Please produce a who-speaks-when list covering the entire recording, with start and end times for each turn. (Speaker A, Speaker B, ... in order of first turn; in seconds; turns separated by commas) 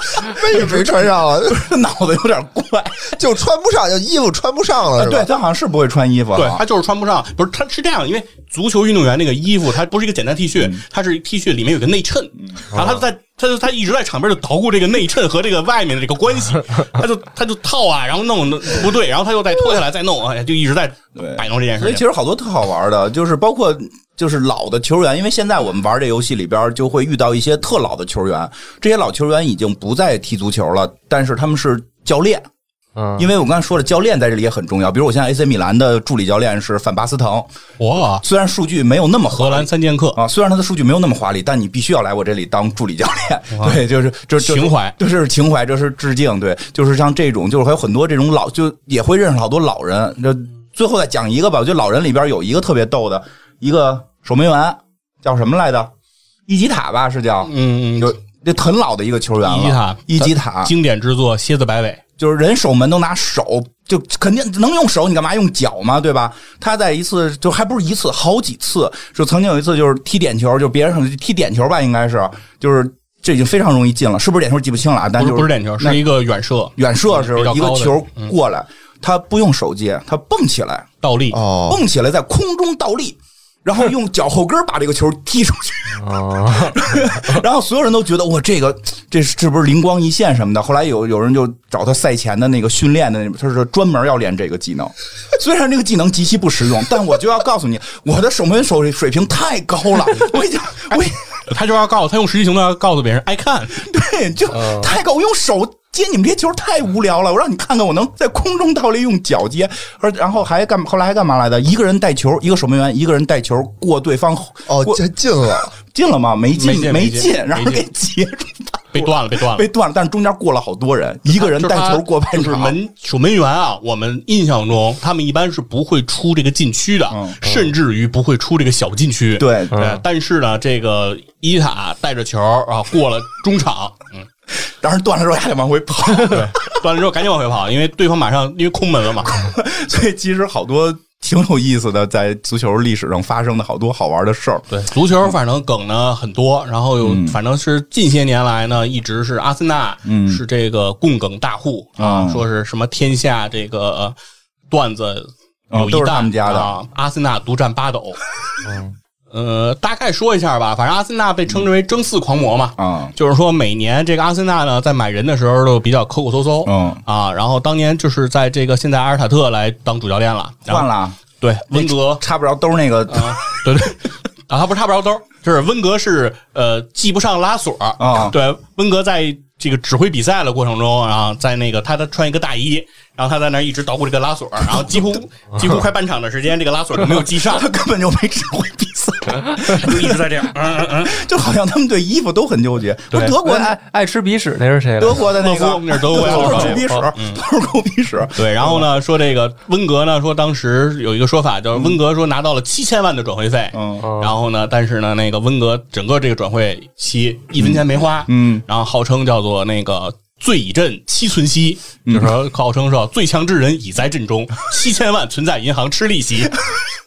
Speaker A: 0.3-1.7, Speaker B: 0.4-3.2, Speaker A: 3.1-5.3, Speaker B: 5.0-6.6, Speaker C: 6.3-22.0, Speaker B: 21.2-32.5, Speaker D: 33.0-33.3, Speaker B: 33.2-37.5, Speaker C: 37.8-38.2, Speaker B: 38.2-55.9, Speaker C: 39.3-40.2, Speaker C: 43.5-43.8, Speaker C: 44.4-44.9, Speaker B: 56.5-60.7, Speaker C: 57.4-58.2, Speaker C: 59.4-62.0, Speaker B: 62.2-76.0, Speaker C: 75.2-78.3, Speaker B: 76.8-80.9, Speaker C: 81.0-81.4, Speaker A: 81.3-81.8, Speaker B: 81.7-101.4, Speaker D: 85.9-87.2, Speaker C: 100.1-103.9, Speaker B: 103.8-115.0, Speaker D: 104.5-104.9, Speaker A: 114.7-115.7, Speaker B: 115.8-122.7, Speaker C: 116.5-117.8, Speaker C: 118.9-119.7, Speaker C: 121.3-134.3, Speaker B: 127.1-127.4, Speaker B: 129.4-129.7, Speaker D: 129.7-130.0, Speaker B: 134.5-136.7, Speaker C: 136.2-139.3, Speaker B: 139.3-144.7, Speaker C: 144.7-154.2, Speaker B: 147.0-147.4, Speaker B: 150.1-150.4, Speaker B: 152.0-152.4, Speaker C: 154.7-158.2, Speaker B: 155.7-156.8, Speaker D: 158.6-158.9, Speaker C: 159.3-170.9, Speaker B: 162.8-163.1, Speaker B: 166.6-167.0, Speaker B: 170.7-171.2, Speaker C: 171.4-172.2, Speaker B: 171.7-173.4, Speaker C: 173.1-187.7, Speaker B: 178.0-178.3, Speaker B: 187.3-193.8, Speaker C: 189.6-191.2, Speaker C: 193.1-193.4, Speaker D: 193.4-195.3, Speaker B: 195.0-198.9, Speaker C: 195.3-197.4, Speaker D: 196.2-197.1, Speaker C: 198.3-216.5, Speaker B: 201.7-202.0, Speaker B: 203.7-204.0, Speaker D: 204.0-204.3, Speaker B: 207.6-208.6, Speaker B: 212.1-212.3